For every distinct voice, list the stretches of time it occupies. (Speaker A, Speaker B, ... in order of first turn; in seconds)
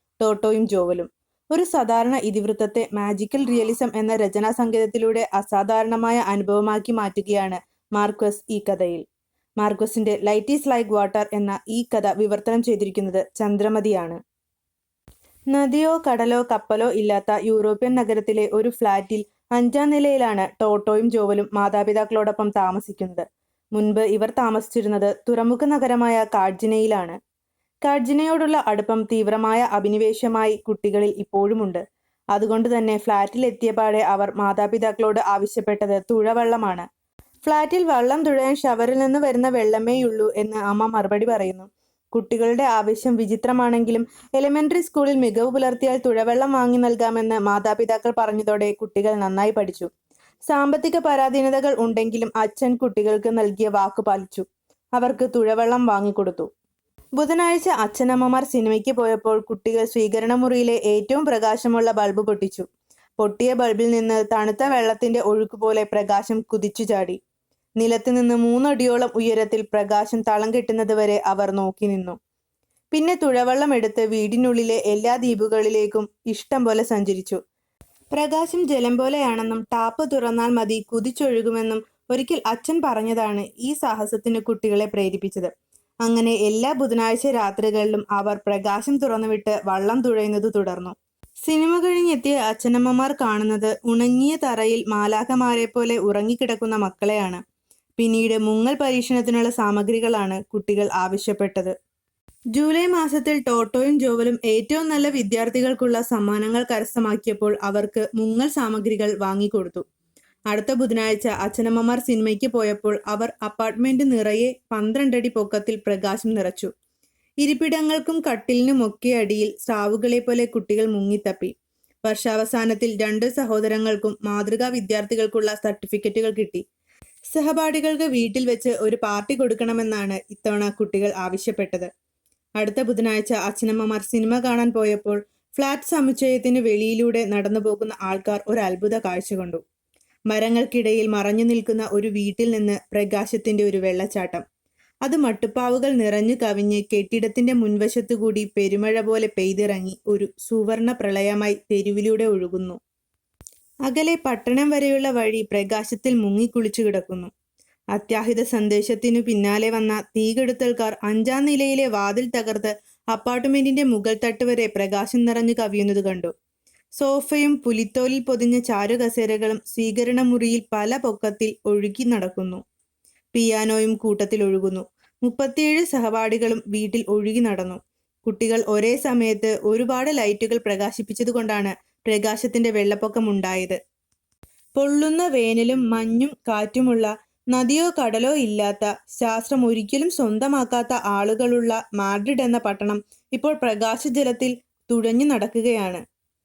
Speaker A: 0.2-9.0, 9.6-14.2, 15.5-23.2, 23.8-27.2, 27.8-31.8, 32.3-36.9, 37.4-49.9, 50.5-54.5, 55.0-56.5, 57.2-62.7, 63.2-67.2, 67.8-72.2, 72.9-77.4, 78.1-85.5, 86.0-90.9, 91.5-97.4, 98.0-101.7, 102.5-109.8, 110.5-116.7, 117.4-121.5, 122.0-126.6, 127.3-131.9, 132.6-139.6, 140.3-144.4, 145.1-152.8, 153.9-157.3, 157.9-166.3, 167.0-172.6, 173.3-183.8, 184.8-196.0